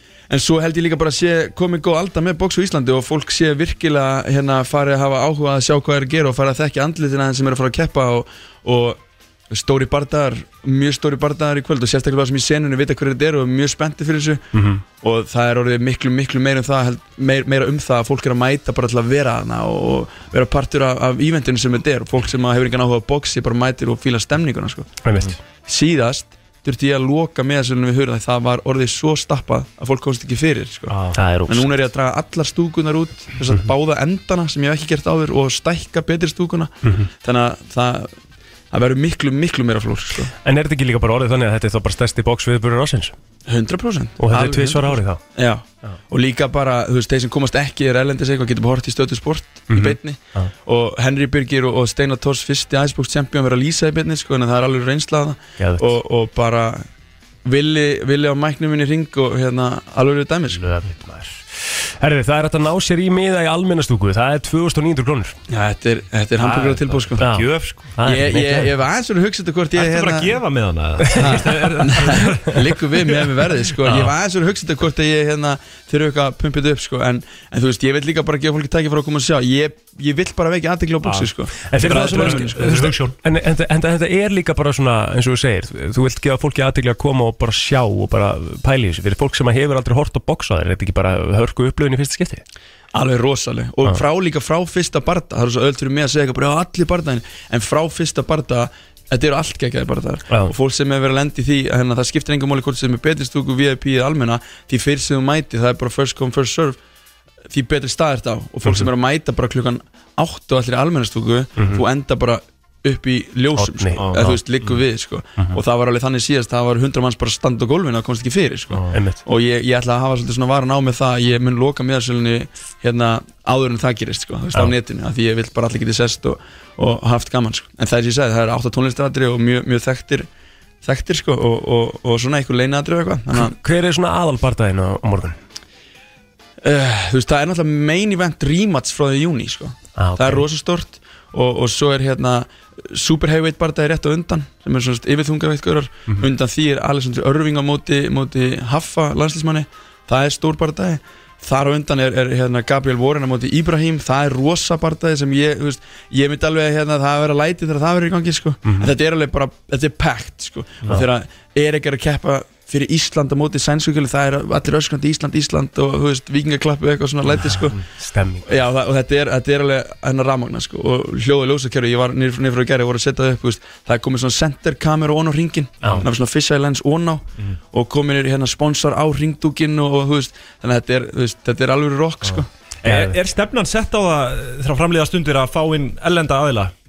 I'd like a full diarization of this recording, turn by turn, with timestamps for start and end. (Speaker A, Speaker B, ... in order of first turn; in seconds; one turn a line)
Speaker A: 0.3-9.0
Speaker A: 9.5-14.4
Speaker B: 14.5-14.8
Speaker A: 15.0-25.0
Speaker B: 25.0-25.4
Speaker A: 25.6-31.0
Speaker C: 30.9-31.2
Speaker B: 31.1-31.7
Speaker A: 31.5-38.1
Speaker B: 36.8-37.1
Speaker A: 38.7-40.3
Speaker B: 40.4-43.1
Speaker A: 43.5-56.9
Speaker B: 44.2-45.2
Speaker B: 49.7-50.5
Speaker B: 55.6-55.9
Speaker A: 57.5-60.6
Speaker B: 60.5-65.3
Speaker A: 65.5-67.4
Speaker C: 66.4-67.6
Speaker B: 67.2-68.7
Speaker A: 68.0-70.3
Speaker C: 69.8-72.5
Speaker B: 71.1-72.3
Speaker A: 71.2-82.8
Speaker B: 73.8-74.1
Speaker C: 81.1-83.2
Speaker B: 81.7-92.4
Speaker A: 92.9-106.8
Speaker A: 107.5-130.3
Speaker B: 111.6-111.8
Speaker B: 113.6-114.3
Speaker C: 114.0-114.4
Speaker B: 118.8-119.2
Speaker A: 130.8-133.6
Speaker B: 133.3-135.4
Speaker A: 136.6-167.8
Speaker B: 140.0-140.4
Speaker B: 158.7-158.9
Speaker B: 167.3-168.6
Speaker A: 168.5-182.5
Speaker B: 175.8-176.1
Speaker B: 182.8-183.2
Speaker C: 182.8-186.7